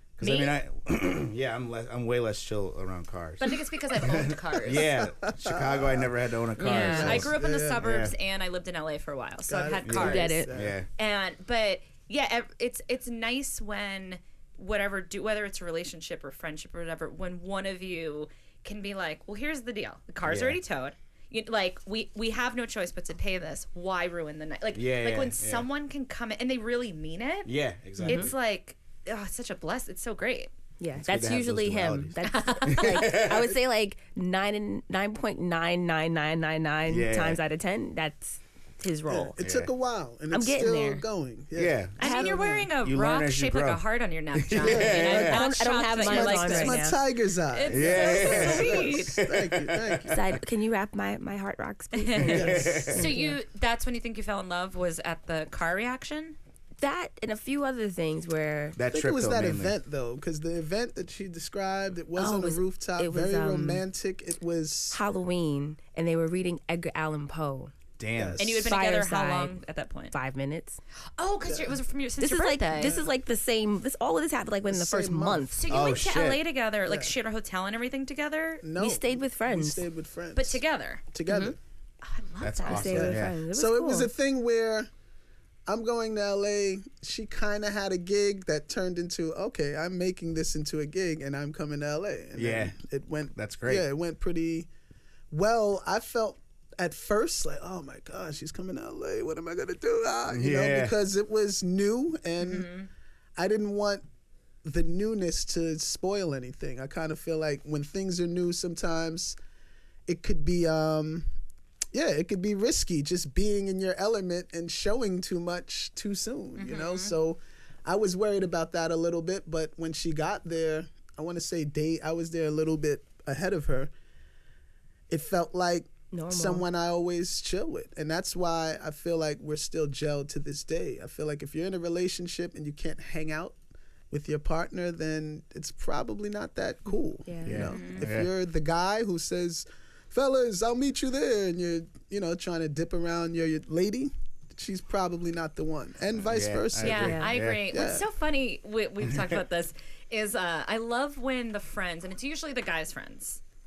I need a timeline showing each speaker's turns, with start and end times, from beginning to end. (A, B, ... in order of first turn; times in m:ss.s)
0:00.2-0:08.1 A
0:00.2-0:00.6 B
0:03.4-0:04.9 B
0:05.0-0:06.1 C
0:06.6-0:07.1 D
0:06.6-0:30.5 B
0:06.7-0:07.8 C
0:09.5-0:10.8 C
0:09.8-0:10.9 A
0:09.9-0:10.5 D
0:20.2-0:20.6 A
0:24.7-0:25.7 A
0:27.4-0:28.3 A
0:28.0-0:28.3 D
0:30.8-0:39.4 D
0:31.0-0:33.6 A
0:32.2-0:33.3 B
0:36.9-0:37.4 A
0:39.1-0:42.7 C
0:39.4-0:39.7 A
0:40.3-0:41.0 D
0:41.5-0:42.0 A
0:42.0-0:47.0 B
0:42.0-0:42.5 D
0:42.8-0:43.8 A
0:44.3-0:45.4 A
0:44.6-0:45.4 C
0:45.1-0:47.0 D
0:46.0-0:50.2 C
0:47.5-0:49.2 B
0:47.7-0:50.2 A
0:50.1-0:53.4 D
0:51.9-0:56.4 B
0:52.2-0:53.0 A
0:52.2-0:52.9 C
0:56.8-0:58.8 D
0:58.8-0:59.7 A
0:58.9-1:05.0 C
1:02.2-1:03.8 D
1:04.9-1:07.7 D
1:08.0-1:08.6 A
1:08.2-1:08.6 C
1:08.4-1:10.1 B
1:08.6-1:09.6 D
1:10.1-1:10.8 D
1:11.2-1:13.0 B
1:11.4-1:11.8 C
1:12.2-1:15.6 D
1:12.7-1:13.1 C
1:14.7-1:15.5 C
1:15.5-1:18.6 B
1:15.7-1:16.4 A
1:16.8-1:17.1 C
1:18.6-1:21.6 C
1:18.8-1:19.8 D
1:20.3-1:21.0 B
1:21.3-1:21.5 D
1:22.0-1:23.1 B
1:22.4-1:23.4 A
1:22.6-1:24.1 D
1:22.8-1:24.9 C
1:25.7-1:34.7 C
1:32.3-1:32.8 A
1:33.3-1:33.8 A
1:35.3-1:42.7 C
1:40.3-1:40.9 A
1:42.4-1:42.9 B
1:43.4-1:44.0 C
1:44.6-1:49.4 C
1:50.1-1:51.3 C
1:51.9-2:03.9 C
1:56.6-1:57.1 B
2:05.1-2:13.6 C
2:06.1-2:06.6 D
2:14.1-2:27.2 C
2:17.2-2:17.7 D
2:17.4-2:18.3 A
2:17.6-2:18.0 B
2:26.2-2:27.6 A
2:26.8-2:33.4 B
2:27.0-2:27.3 D
2:27.7-2:28.0 C
2:29.0-2:29.4 A